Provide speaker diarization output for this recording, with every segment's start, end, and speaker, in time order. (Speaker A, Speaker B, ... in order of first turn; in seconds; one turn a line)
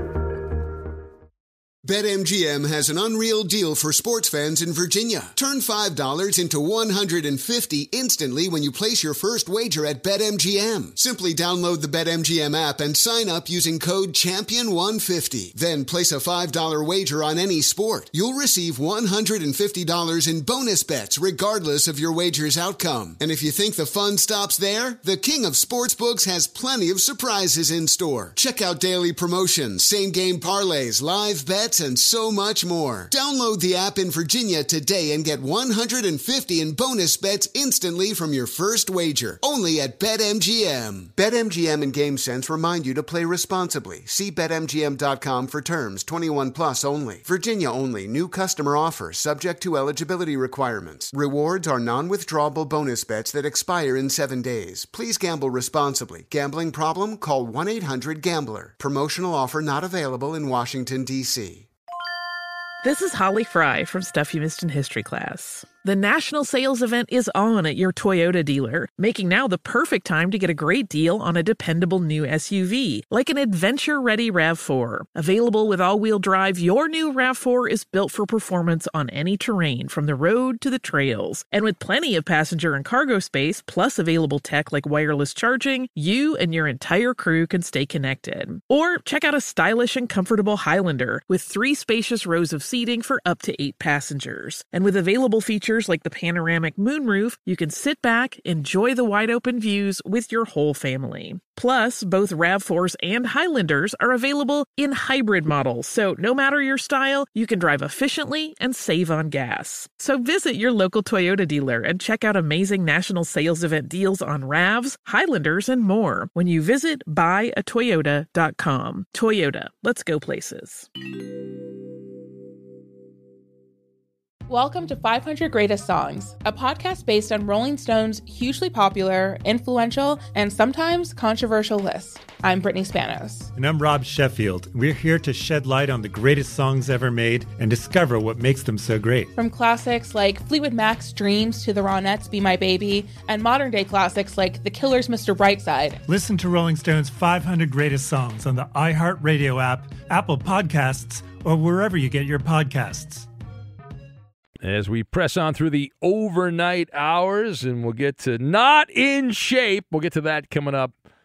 Speaker A: 1.8-61.7
Speaker B: 62.8-120.9
Speaker C: 124.5-133.5
Speaker D: 133.6-139.3
Speaker C: 139.4-146.0
Speaker D: 146.1-153.3
Speaker E: 154.6-161.0